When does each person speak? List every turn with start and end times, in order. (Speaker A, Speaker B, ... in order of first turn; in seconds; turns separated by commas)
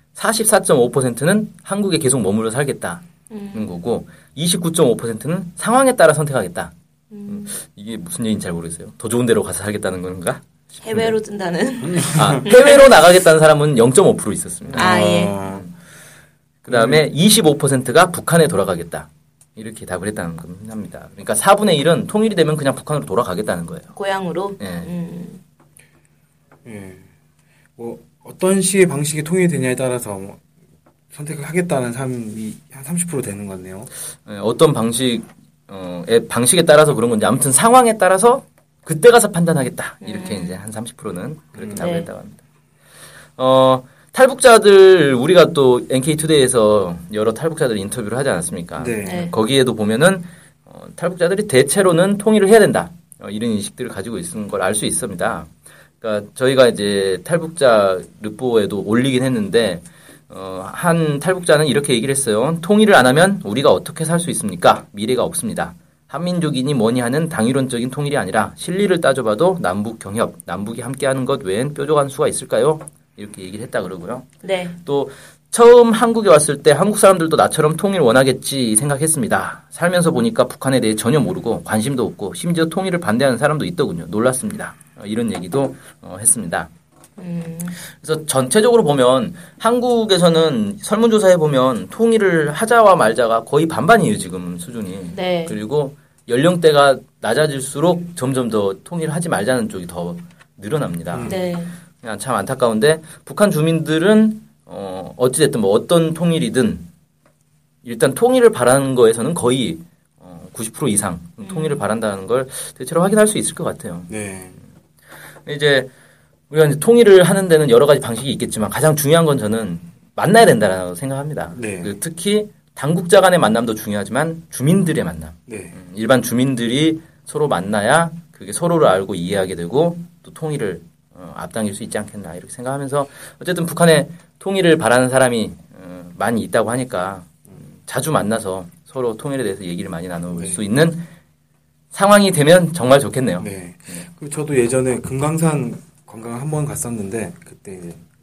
Speaker A: 0.1-6.7, Speaker B: 3.3-3.7, Speaker B: 7.1-7.5, Speaker A: 7.3-11.1, Speaker B: 10.8-12.9, Speaker C: 11.9-12.4, Speaker A: 12.1-15.7, Speaker C: 14.7-15.7, Speaker B: 14.8-15.4, Speaker A: 16.6-23.9, Speaker C: 16.7-17.0, Speaker B: 23.9-25.4, Speaker A: 24.6-24.9, Speaker C: 26.6-27.1, Speaker C: 27.8-30.4, Speaker C: 31.1-33.9, Speaker A: 34.2-42.4, Speaker B: 40.0-40.5, Speaker C: 41.6-41.9, Speaker B: 41.8-42.1, Speaker A: 43.4-74.3, Speaker C: 48.8-49.3, Speaker B: 49.0-49.3, Speaker B: 74.4-74.8, Speaker A: 74.8-86.7, Speaker B: 87.2-87.8, Speaker A: 88.0-101.4, Speaker B: 95.1-95.6, Speaker C: 101.1-101.4, Speaker B: 101.3-101.7, Speaker A: 102.0-106.9, Speaker A: 107.8-114.1, Speaker B: 111.4-111.8, Speaker C: 114.1-114.6, Speaker A: 115.5-115.9, Speaker A: 116.5-141.1, Speaker C: 121.5-121.9, Speaker C: 125.5-125.8, Speaker C: 140.3-140.6, Speaker A: 141.9-144.1, Speaker C: 143.4-148.0